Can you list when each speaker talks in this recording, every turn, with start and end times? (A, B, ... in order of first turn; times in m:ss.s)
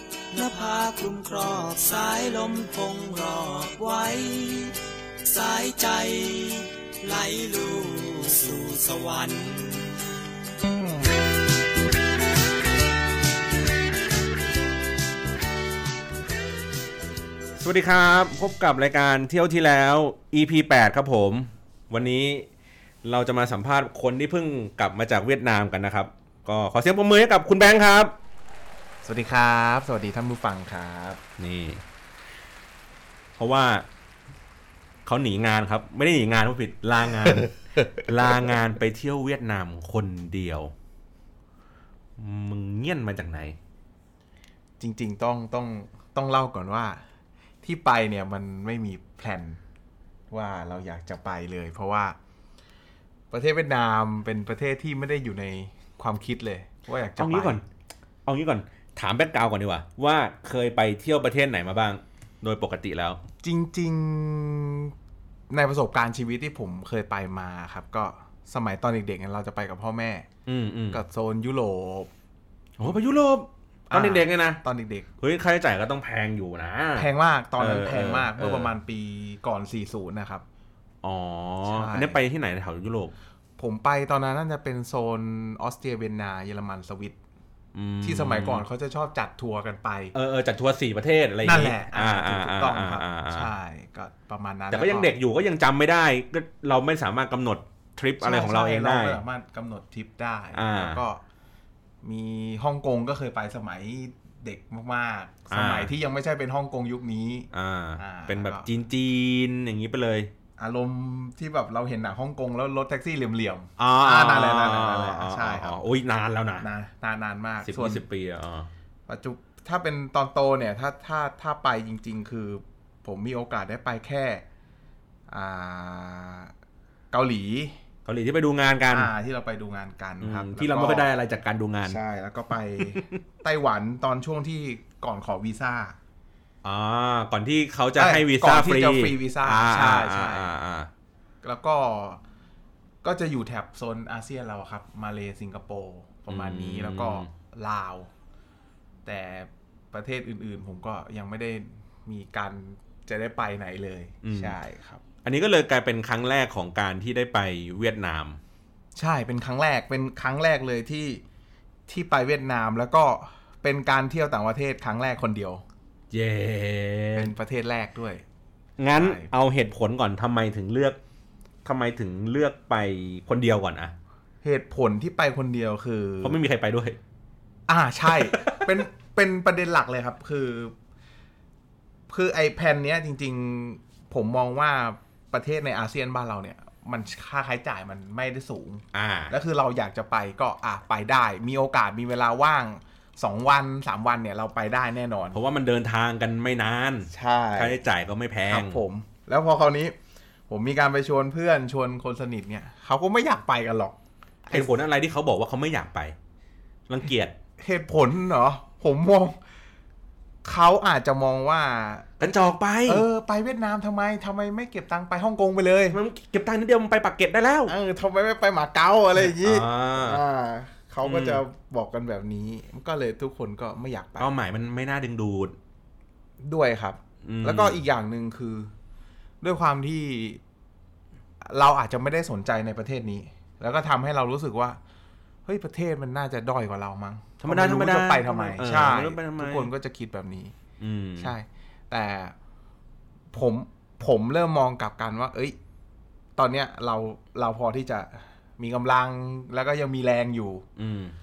0:00.3-0:10.1 A
0:17.6-0:22.5 B
0:23.0-0:28.2 B
0:29.0-0:31.2 C
0:31.4-0:31.8 B
0:33.4-0:33.9 B
0:35.0-0:40.7 B
0:42.2-0:43.6 B
0:44.8-0:47.0 C
0:47.6-0:49.6 C
0:50.3-0:52.2 C
0:53.3-0:57.6 C
0:57.2-0:57.6 B
0:58.3-1:03.2 B
1:03.4-1:04.9 C
1:05.5-1:10.3 C
1:10.5-1:11.0 B
1:10.9-1:12.1 C
1:12.8-1:14.6 B
1:13.9-1:15.1 C
1:15.2-1:18.7 B
1:17.0-1:20.4 C
1:21.0-1:23.1 B
1:21.6-1:22.2 C
1:23.6-1:27.2 C
1:27.8-1:28.6 B
1:28.0-1:30.1 C
1:30.1-1:33.5 B
1:31.4-1:35.1 C
1:34.7-1:39.2 B
1:38.2-1:41.2 C
1:40.5-1:41.0 B
1:42.0-1:48.7 C
1:45.5-1:45.9 B
1:47.5-1:50.3 B
1:50.6-1:55.8 C
1:53.8-1:56.7 B
1:56.6-1:58.0 C
1:57.6-1:58.7 B
1:59.1-2:04.4 C
2:05.3-2:06.5 C
2:07.1-2:07.8 C
2:08.1-2:09.1 B
2:08.9-2:11.1 C
2:10.2-2:12.0 B
2:11.9-2:16.0 C
2:16.6-2:20.9 B
2:18.0-2:20.5 C
2:21.4-2:22.2 C
2:23.0-2:28.1 C
2:26.3-2:27.3 B
2:29.1-2:35.0 C
2:34.2-2:34.6 B
2:35.2-2:38.4 B
2:39.0-2:41.2 C
2:41.9-2:45.6 C
2:46.1-2:47.3 B
2:47.1-2:48.2 C
2:48.8-2:51.0 B
2:49.0-2:49.3 C
2:51.6-2:54.0 B
2:54.4-2:56.4 C
2:56.2-2:57.0 B
2:57.7-3:00.7 C
2:58.2-2:58.6 B
3:02.1-3:15.4 C
3:08.9-3:09.3 B
3:15.3-3:18.8 B
3:17.1-3:17.8 C
3:18.5-3:19.9 C
3:20.5-3:24.0 C
3:24.5-3:24.7 C
3:24.5-3:26.2 B
3:26.9-3:27.4 B
3:27.6-3:29.4 C
3:30.4-3:32.1 C
3:32.2-3:33.0 B
3:32.9-3:36.0 C
3:35.9-3:37.7 B
3:37.7-3:44.3 C
3:39.2-3:40.2 B
3:41.0-3:41.4 B
3:44.2-3:45.6 B
3:46.4-3:48.7 C
3:47.2-3:47.8 B
3:49.4-3:50.4 C
3:51.4-3:54.8 C
3:55.5-4:00.5 C
3:57.4-3:59.7 B
4:00.8-4:01.3 B
4:01.2-4:02.4 C
4:03.3-4:05.6 C
4:06.4-4:10.7 C
4:10.8-4:11.2 B